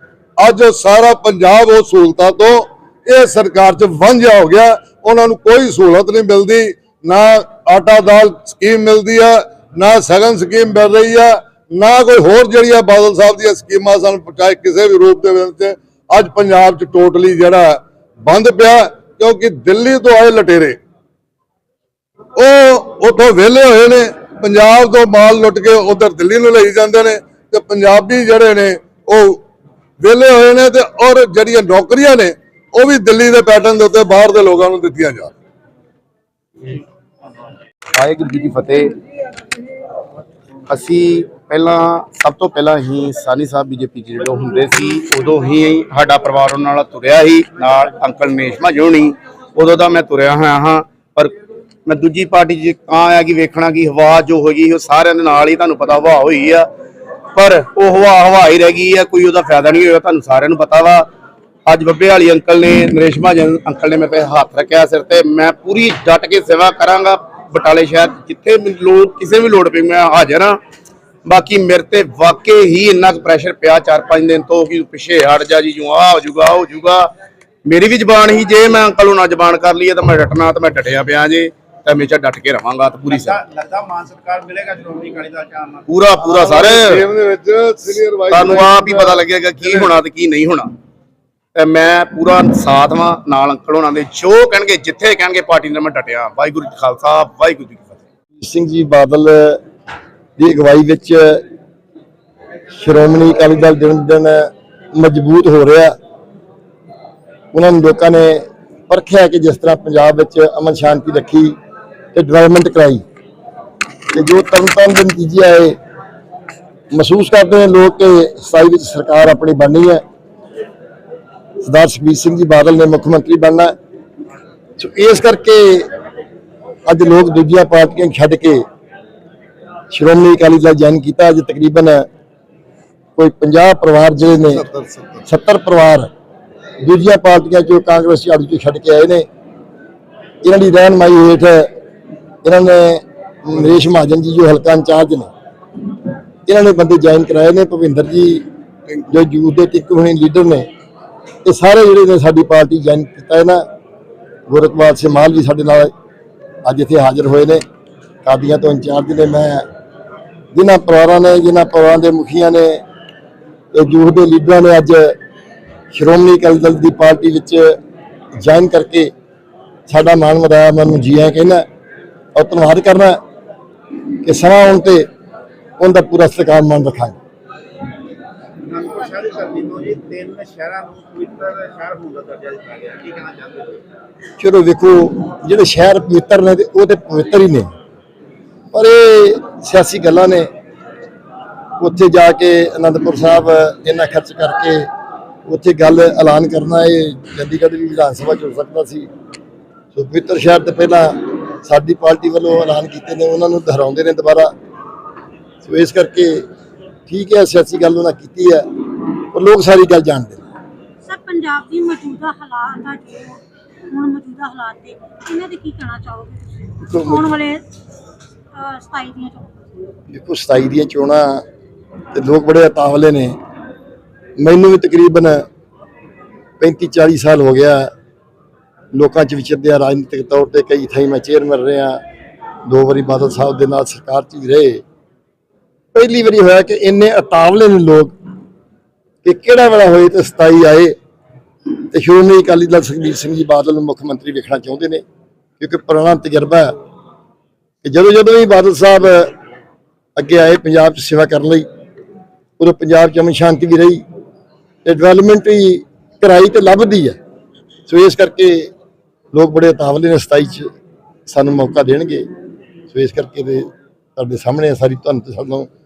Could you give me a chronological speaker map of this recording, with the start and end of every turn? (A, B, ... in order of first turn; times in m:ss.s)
0:00.4-0:20.8 A
0:22.4-0:29.4 A
0:30.0-0:35.3 A
0:38.0-0:39.0 B
0:40.7-0:51.3 B
0:51.9-0:56.7 B
0:57.3-1:01.1 B
1:01.7-1:10.6 B
1:11.2-1:17.1 B
1:17.7-1:23.4 B
1:23.1-1:25.9 C
1:25.9-1:27.0 B
1:26.2-1:29.2 A
1:28.3-1:30.7 B
1:31.6-1:38.0 B
1:38.4-1:39.6 D
1:40.4-1:41.4 D
1:42.8-1:46.0 D
1:47.5-1:51.5 D
1:52.1-1:53.0 D
1:54.1-1:55.8 D
1:56.9-2:00.0 D
2:01.6-2:03.7 D
2:04.8-2:05.9 D
2:06.9-2:08.6 D
2:09.9-2:12.0 D
2:13.2-2:14.6 D
2:14.5-2:15.2 A
2:15.3-2:16.1 D
2:16.8-2:19.3 D
2:20.4-2:21.7 D
2:22.4-2:25.3 D
2:26.5-2:28.5 D
2:29.1-2:30.7 D
2:31.4-2:33.6 D
2:34.5-2:35.9 D
2:36.6-2:37.6 D
2:38.2-2:39.6 D
2:40.5-2:42.8 D
2:43.7-2:45.2 D
2:45.9-2:47.8 D
2:48.4-2:49.1 D
2:49.9-2:51.6 D
2:52.4-2:53.2 D
2:54.2-2:55.1 D
2:55.8-2:57.2 D
2:58.7-3:03.8 C
3:04.4-3:07.7 D
3:08.7-3:10.5 D
3:11.8-3:14.9 D
3:15.5-3:19.1 D
3:20.0-3:24.5 D
3:25.6-3:26.4 D
3:27.1-3:28.6 D
3:29.3-3:30.4 D
3:31.0-3:33.4 E
3:33.9-3:37.6 E
3:36.9-3:37.2 D
3:38.6-3:39.6 E
3:40.1-3:41.4 D
3:42.1-3:43.4 D
3:44.4-3:45.4 D
3:46.6-3:47.9 D
3:48.9-3:52.0 D
3:52.7-3:54.8 D
3:55.9-3:58.1 D
3:59.2-4:00.9 D
4:01.9-4:05.0 D
4:05.6-4:06.7 D
4:07.8-4:09.3 D
4:10.2-4:11.7 D
4:12.6-4:14.0 D
4:14.8-4:17.2 D
4:17.9-4:18.7 D
4:19.3-4:20.7 D
4:21.3-4:22.3 D
4:22.9-4:25.7 D